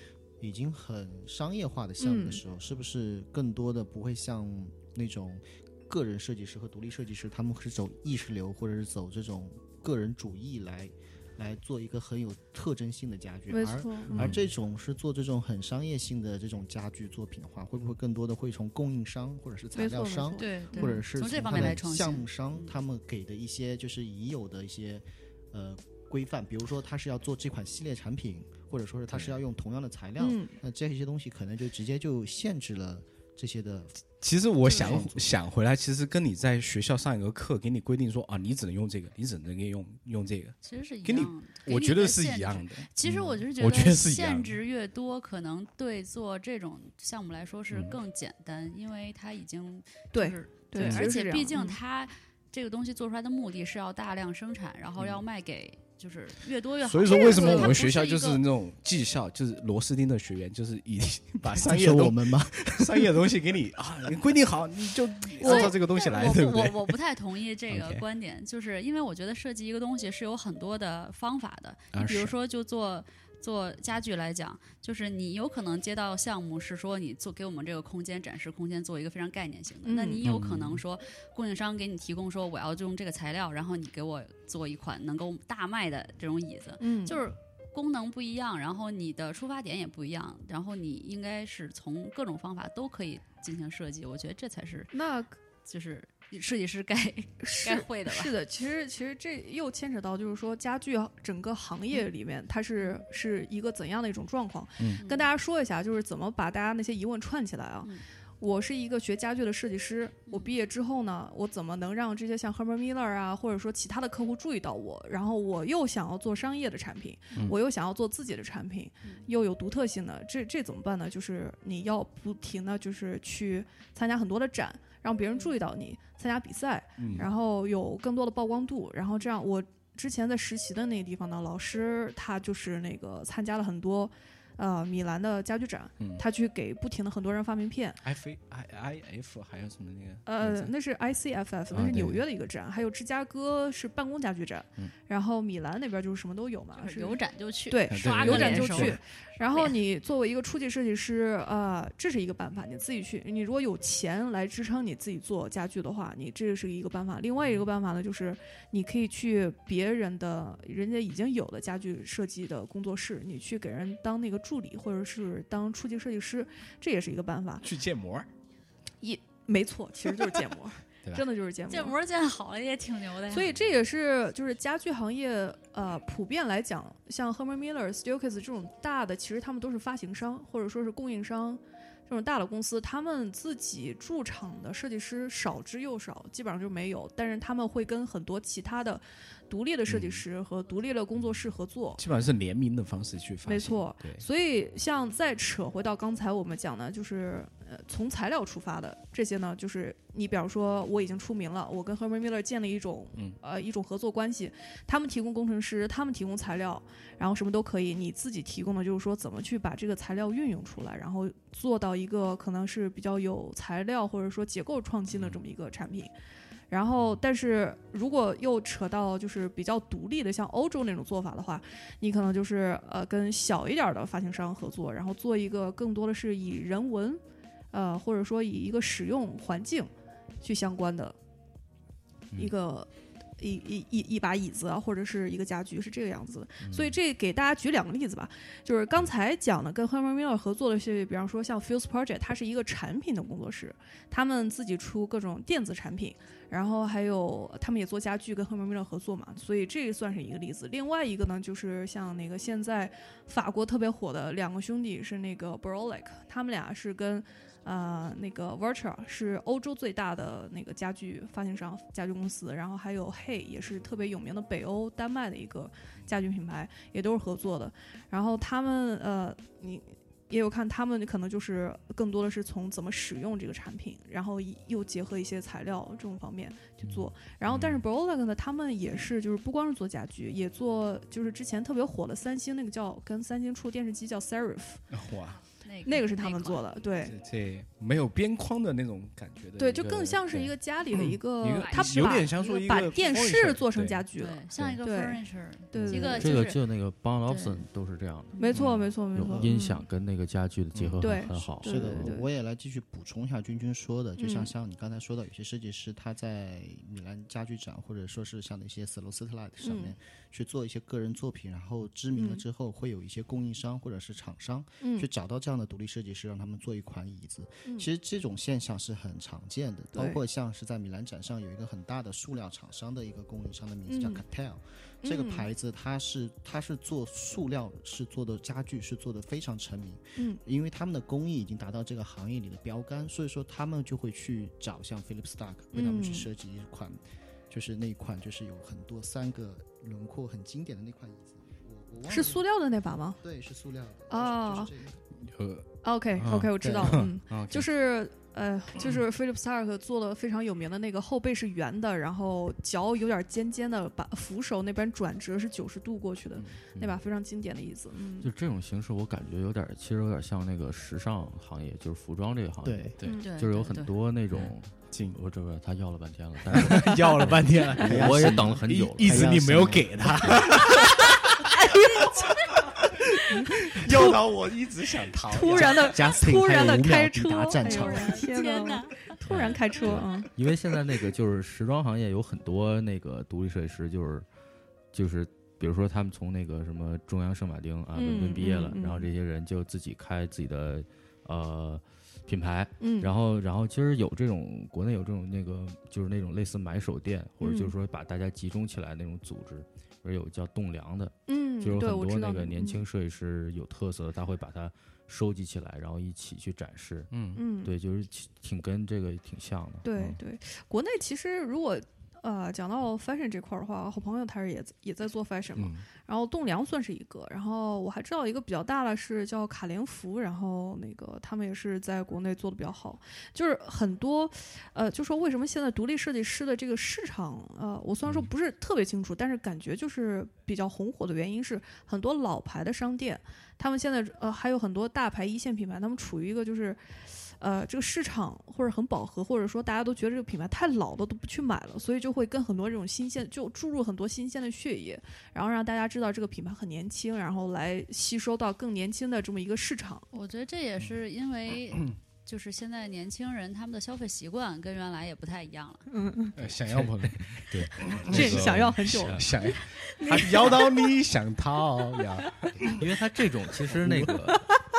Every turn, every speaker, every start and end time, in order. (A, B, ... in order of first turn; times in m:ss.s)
0:00.4-0:34.0 A
0:02.0-0:02.4 B
0:13.5-0:14.2 B
0:14.1-0:14.4 C
0:19.8-0:21.0 B
0:20.4-0:22.7 D
0:29.1-0:29.4 C
0:30.2-0:30.6 B
0:34.2-0:44.6 C
0:34.6-0:35.3 A
0:40.6-0:58.4 D
0:47.7-0:48.0 C
0:50.1-0:51.8 B
0:50.8-0:51.1 C
0:56.8-1:07.0 C
0:57.1-0:57.8 B
1:01.5-1:03.2 A
1:05.4-1:05.8 B
1:05.4-1:34.9 D
1:07.7-1:08.0 C
1:11.9-1:12.4 C
1:19.8-1:20.2 B
1:20.2-1:20.8 C
1:26.8-1:27.2 B
1:34.9-1:35.4 B
1:35.6-1:38.3 D
1:37.4-2:18.0 B
1:45.0-1:45.3 D
2:07.0-2:07.3 C
2:18.0-2:20.7 C
2:20.3-2:47.7 B
2:21.7-2:22.2 E
2:26.8-2:29.8 D
2:27.9-2:29.0 C
2:47.6-2:48.3 C
2:49.0-2:52.0 B
2:51.7-2:53.5 D
2:53.3-3:12.0 B
3:09.9-3:10.2 C
3:12.0-3:14.2 C
3:13.4-3:36.1 B
3:35.1-3:35.4 C
3:36.7-3:47.2 B
3:47.7-3:49.9 B
3:50.4-3:51.2 B
3:52.4-4:44.8 B
3:56.6-3:57.0 E
4:37.5-4:37.8 C
4:44.9-4:45.4 C
4:45.6-4:46.6 D
4:45.8-4:47.2 B
4:47.0-4:54.0 C
4:49.6-4:56.5 B
4:49.8-4:50.4 E
4:51.5-4:52.9 D
4:54.2-4:56.6 D
4:55.9-5:02.2 E
4:57.3-4:57.6 D
4:58.4-4:59.9 B
4:58.5-4:58.9 C
5:00.8-5:01.1 C
5:01.0-5:02.3 B
5:01.6-5:42.5 A
5:04.2-5:04.5 B
5:09.6-5:09.9 B
5:12.2-5:12.4 B
5:14.8-5:15.1 B
5:19.9-5:20.2 B
5:23.9-5:24.2 B
5:25.0-5:25.5 B
5:30.2-5:30.4 B
5:35.7-5:36.3 B
5:42.1-5:43.2 B
5:43.2-5:45.0 A
5:44.1-5:44.7 B
5:45.2-5:47.7 C
5:45.8-5:58.3 B
5:46.6-5:47.0 A
5:56.4-5:56.7 C
5:58.2-6:09.8 E
6:02.6-6:02.9 A
6:03.0-6:03.3 B
6:03.2-6:03.9 D
6:04.3-6:05.2 C
6:06.5-6:11.8 C
6:07.8-6:10.4 A
6:11.4-6:12.4 B
6:12.5-6:16.2 C
6:13.4-6:14.2 B
6:15.3-6:20.3 B
6:15.6-6:18.3 A
6:17.7-6:19.0 D
6:19.3-6:24.3 E
6:24.9-6:50.2 E
6:28.0-6:29.1 B
6:32.8-6:33.1 B
6:37.4-6:37.7 B
6:41.3-6:42.8 B
6:47.1-6:47.4 C
6:47.4-6:47.7 B
6:49.8-7:30.1 B
6:55.6-6:55.9 C
7:30.1-7:35.9 D
7:35.9-7:36.4 B
7:36.4-7:42.9 C
7:36.7-7:39.2 E
7:38.1-7:39.3 B
7:42.8-7:44.5 E